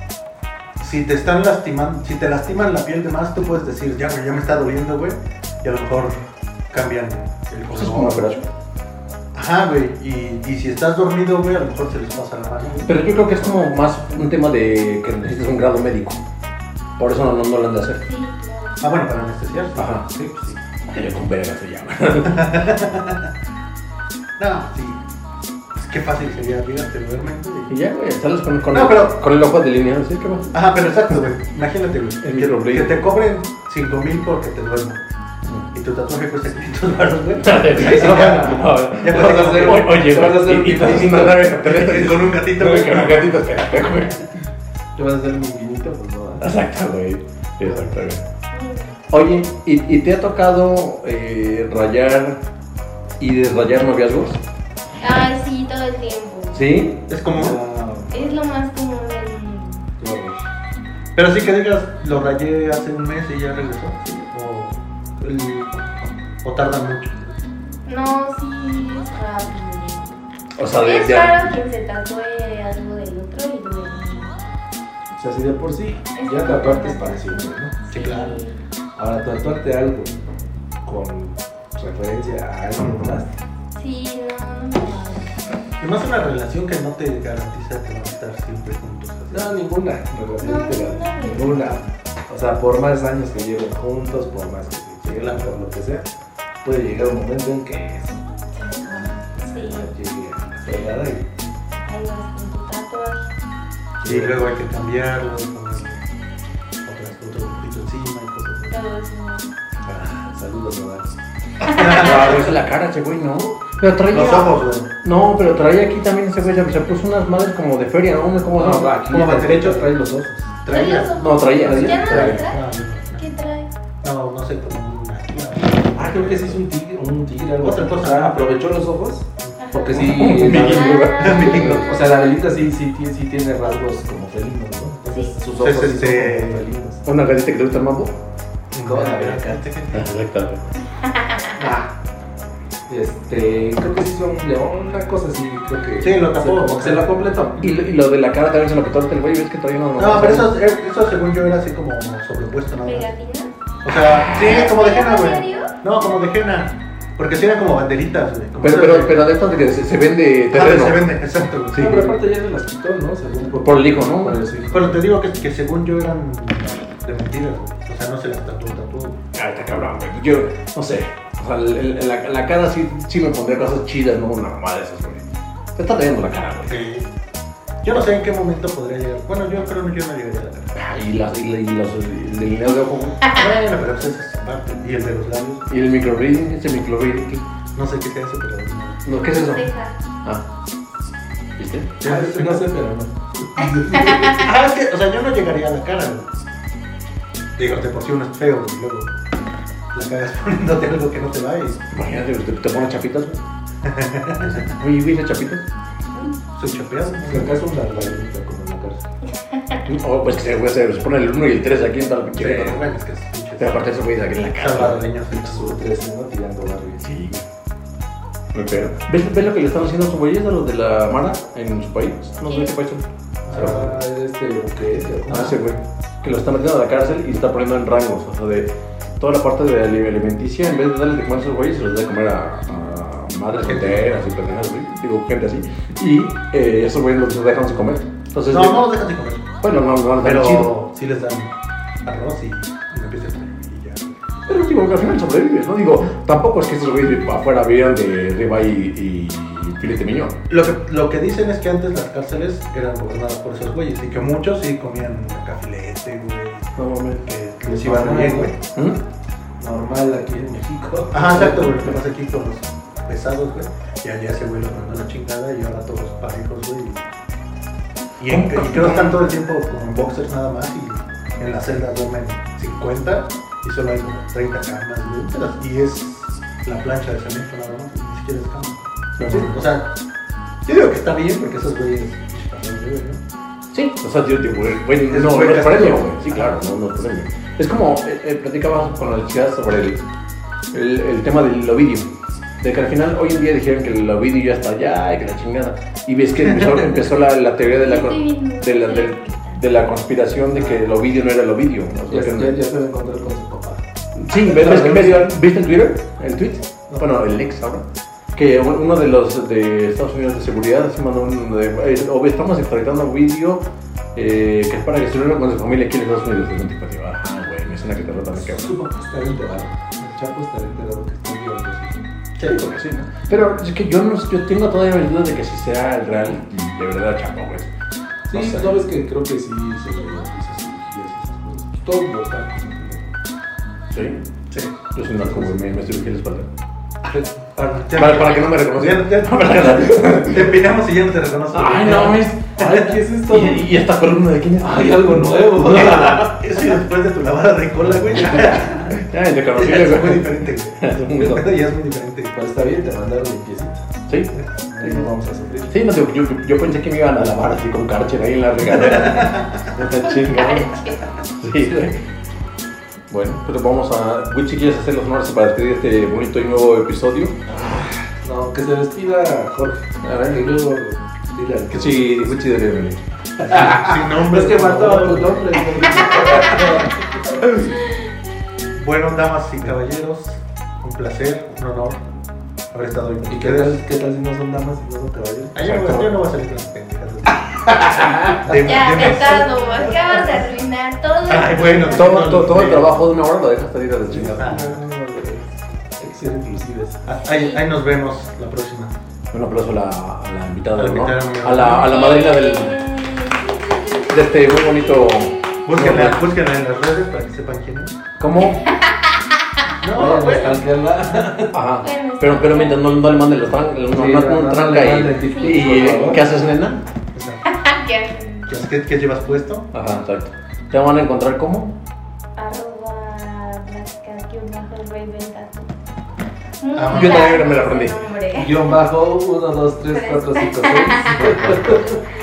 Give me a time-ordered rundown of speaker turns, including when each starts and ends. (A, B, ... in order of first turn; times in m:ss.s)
0:00.8-0:06.1 A
0:06.7-0:08.4 A
0:07.7-0:08.5 B
0:09.3-0:12.9 A
0:12.8-0:16.2 B
0:17.0-0:18.0 B
0:18.0-0:18.8 C
0:18.8-0:20.6 A
0:19.8-0:20.1 B
0:20.9-0:22.7 B
0:22.3-0:23.3 A
0:24.4-0:25.0 A
0:25.7-0:27.7 A
0:27.7-0:30.6 B
0:28.7-0:29.2 A
0:30.5-0:35.0 A
0:32.2-0:33.1 B
0:35.7-0:40.0 A
0:37.4-0:44.3 B
0:37.9-0:41.4 D
0:41.6-0:43.5 A
0:45.0-0:46.5 D
0:46.4-0:48.2 B
0:47.6-0:48.0 A
0:48.5-0:49.0 C
0:49.1-0:52.4 B
0:53.2-0:54.4 B
0:55.0-0:56.6 C
0:56.5-0:57.0 B
0:57.1-0:57.6 A
0:57.3-0:58.2 D
0:58.1-0:59.8 C
1:00.0-1:00.4 D
1:01.2-1:05.9 A
1:06.4-1:07.2 A
1:07.9-1:14.3 C
1:10.6-1:11.5 B
1:15.1-1:17.7 D
1:16.2-1:18.6 C
1:17.9-1:18.4 A
1:19.0-1:20.2 D
1:20.8-1:23.3 D
1:23.8-1:25.3 C
1:25.8-1:29.6 A
1:29.3-1:36.0 D
1:30.4-1:31.8 C
1:35.0-1:35.6 A
1:36.6-1:38.2 D
1:38.5-1:39.9 C
1:39.4-1:41.3 D
1:40.7-1:40.9 C
1:41.9-1:43.3 C
1:44.0-1:44.4 D
1:44.0-1:46.0 A
1:46.8-1:48.8 A
1:48.7-1:49.5 C
1:49.8-1:51.1 D
1:51.6-1:52.5 A
1:51.8-1:59.0 B
1:54.1-1:54.9 A
1:58.6-2:00.6 D
1:59.1-1:59.9 A
2:00.6-2:01.2 A
2:00.7-2:02.6 C
2:01.2-2:02.4 B
2:01.6-2:02.4 D
2:01.9-2:03.2 A
2:03.2-2:03.7 C
2:04.0-2:06.6 A
2:06.0-2:17.0 D
2:07.6-2:08.5 A
2:09.4-2:10.0 A
2:09.6-2:12.3 C
2:10.0-2:11.9 B
2:11.2-2:11.9 A
2:15.1-2:15.4 C
2:15.5-2:16.6 A
2:17.0-2:18.1 B
2:18.7-2:20.1 A
2:18.8-2:19.6 D
2:19.9-2:20.6 B
2:21.1-2:21.5 C
2:21.6-2:21.8 A
2:21.6-2:21.9 D
2:22.9-2:27.6 D
2:26.0-2:27.6 A
2:27.6-2:30.5 B
2:30.0-2:33.1 A
2:32.8-2:33.5 C
2:33.8-2:39.2 A
2:34.0-2:34.7 B
2:34.3-2:35.7 C
2:38.6-2:41.1 B
2:40.5-2:41.9 A
2:41.7-2:42.2 B
2:41.8-2:45.0 D
2:43.6-2:44.4 B
2:44.7-2:49.2 A
2:49.3-2:56.8 B
2:56.7-2:57.1 A
2:57.8-3:00.7 A
3:00.8-3:03.3 B
3:03.3-3:05.6 A
3:05.7-3:07.4 B
3:07.8-3:09.1 A
3:09.1-3:09.7 B
3:09.2-3:10.0 C
3:11.6-3:11.9 B
3:12.0-3:12.7 A
3:12.0-3:14.5 D
3:14.3-3:16.3 A
3:17.6-3:19.1 A
3:19.9-3:21.9 A
3:21.9-3:23.4 B
3:23.8-3:24.8 A
3:24.6-3:25.6 B
3:26.6-3:27.6 A
3:27.2-3:29.0 D
3:29.4-3:29.8 C
3:29.9-3:32.8 B
3:32.4-3:33.9 A
3:33.6-3:35.0 B
3:34.6-3:35.8 A
3:35.3-3:37.0 D
3:37.0-3:37.4 B
3:38.5-3:43.8 B
3:42.5-3:42.7 C
3:43.5-3:44.0 A
3:43.5-3:45.6 D
3:45.3-3:45.6 A
3:45.3-3:58.9 B
3:53.6-3:54.1 A
3:58.5-3:59.5 A
3:59.6-4:00.7 B
4:00.2-4:01.5 A
4:02.0-4:04.1 A
4:04.5-4:10.4 B
4:10.5-4:16.7 A
4:16.8-4:17.2 B
4:17.2-4:18.6 A
4:17.6-4:18.5 D
4:18.7-4:19.0 B
4:19.6-4:22.0 D
4:21.1-4:27.0 A
4:28.2-4:39.9 A
4:28.3-4:29.2 B
4:39.2-4:39.6 B
4:40.6-4:43.2 A
4:43.7-4:50.0 B
4:45.1-4:46.5 A
4:50.7-4:52.1 B
4:52.6-5:02.5 B
4:56.4-4:56.8 A
4:57.7-4:59.6 C
5:00.6-5:00.8 A
5:02.1-5:03.8 D
5:04.2-5:07.8 B
5:04.4-5:05.4 D
5:08.3-5:13.6 B
5:14.2-5:18.7 B
5:18.4-5:22.0 D
5:22.4-5:22.7 A
5:22.4-5:27.7 B
5:28.3-5:28.8 B
5:28.3-5:33.2 D
5:33.9-5:34.2 B
5:34.9-5:36.5 B
5:35.2-5:35.7 D
5:37.1-5:37.6 D
5:37.6-5:43.0 A
5:37.9-5:40.5 B
5:41.5-5:42.5 B
5:42.0-5:43.7 D
5:43.3-5:46.0 B
5:44.6-5:46.2 D
5:45.7-5:49.0 A
5:48.2-5:51.5 B
5:49.5-5:52.3 A
5:52.3-5:53.8 D
5:54.1-5:55.1 B
5:54.7-5:55.8 D
5:55.7-6:00.8 B
5:58.8-5:59.6 A
6:00.0-6:01.2 C
6:01.4-6:02.0 B
6:03.1-6:08.0 B
6:08.2-6:12.4 D
6:10.0-6:10.5 B
6:11.7-6:13.0 B
6:13.4-6:17.5 D
6:13.5-6:16.4 A
6:17.8-6:18.7 C
6:18.7-6:22.0 A
6:22.7-6:23.8 A
6:23.3-6:25.6 D
6:25.6-6:29.9 A
6:25.6-6:26.1 B
6:27.6-6:28.4 D
6:28.6-6:32.0 C
6:31.2-6:32.9 A
6:31.9-6:34.6 B
6:34.1-6:37.0 D
6:34.4-6:34.8 A
6:37.1-6:38.9 A
6:37.2-6:37.6 C
6:39.3-6:42.9 B
6:40.7-6:42.0 A
6:41.8-6:45.5 C
6:44.1-6:46.2 B
6:45.7-6:48.0 A
6:48.2-6:48.7 B
6:48.6-6:48.9 C
6:49.8-6:50.6 A
6:49.9-6:51.6 D
6:51.5-6:56.8 B
6:51.8-6:52.8 C
6:53.9-6:56.2 D
6:55.2-6:56.2 C
6:57.1-6:57.4 A
6:57.4-6:58.5 C
6:58.5-6:59.7 A
6:59.7-7:01.7 B
7:02.4-7:05.7 C
7:06.6-7:08.7 C
7:06.7-7:07.4 A
7:06.9-7:08.0 B
7:08.4-7:12.0 D
7:09.9-7:12.0 C
7:11.2-7:11.7 B